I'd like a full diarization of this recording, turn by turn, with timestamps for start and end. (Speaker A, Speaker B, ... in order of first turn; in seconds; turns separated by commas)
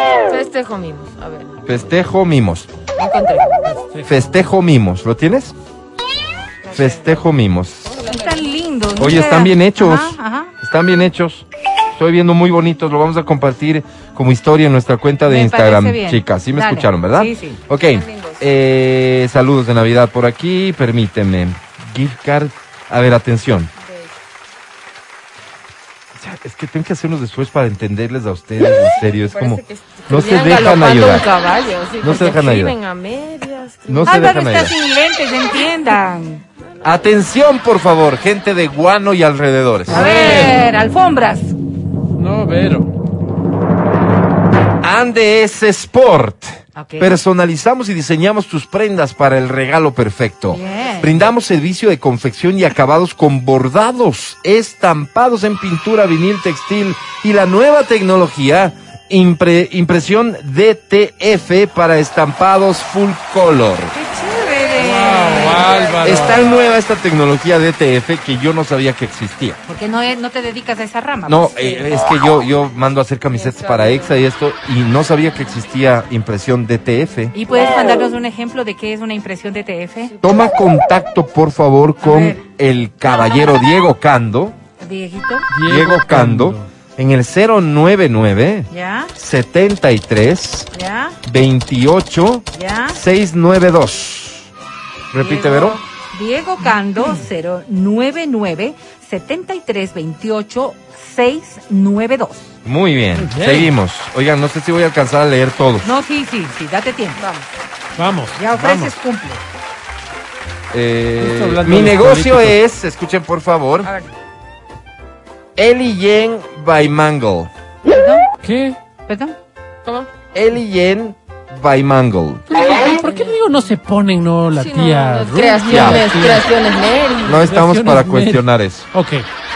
Speaker A: 0.3-1.8, Speaker B: 1.6-2.7, Speaker A: 3.0-3.5, Speaker C: 3.6-4.1, Speaker B: 4.0-5.5, Speaker A: 6.6-7.3, Speaker B: 6.7-8.1, Speaker A: 7.8-9.1, Speaker D: 8.1-10.5, Speaker B: 9.0-11.4, Speaker B: 12.0-23.7, Speaker D: 15.2-17.6, Speaker A: 17.7-18.5, Speaker A: 23.8-24.1, Speaker B: 26.1-31.2, Speaker A: 28.8-34.4, Speaker B: 32.0-32.7, Speaker B: 33.9-34.8, Speaker D: 34.0-36.4, Speaker B: 36.8-40.5, Speaker D: 39.9-41.5, Speaker C: 39.9-40.6, Speaker C: 42.1-42.9, Speaker B: 44.8-63.9, Speaker D: 46.8-47.1, Speaker D: 50.5-51.1, Speaker D: 63.9-66.1, Speaker A: 64.6-66.7, Speaker C: 64.8-66.4, Speaker B: 66.0-69.6, Speaker D: 69.7-71.5, Speaker B: 71.2-77.3, Speaker A: 71.6-71.9, Speaker A: 73.3-74.2, Speaker D: 77.3-80.2, Speaker A: 80.1-80.5, Speaker B: 80.2-84.5, Speaker D: 82.0-82.4, Speaker D: 83.2-83.5, Speaker D: 84.8-85.5, Speaker C: 85.5-86.7, Speaker B: 85.6-90.7, Speaker D: 88.7-89.1, Speaker D: 90.7-91.2, Speaker B: 91.2-94.5, Speaker D: 92.5-93.0, Speaker B: 95.1-95.8, Speaker D: 95.2-102.5, Speaker B: 102.6-105.9, Speaker C: 103.2-103.7, Speaker D: 105.8-107.2, Speaker A: 107.2-107.5, Speaker C: 108.0-108.9, Speaker D: 108.3-109.4, Speaker B: 110.7-113.9, Speaker C: 111.2-112.6, Speaker A: 113.8-114.1, Speaker B: 115.5-117.5, Speaker D: 117.9-118.3, Speaker C: 118.4-118.8, Speaker D: 119.1-119.3, Speaker A: 119.8-120.2, Speaker B: 120.3-122.4, Speaker A: 122.5-123.4, Speaker C: 122.5-126.4, Speaker A: 124.5-127.5, Speaker B: 125.7-126.0, Speaker B: 127.2-128.9, Speaker C: 127.4-129.2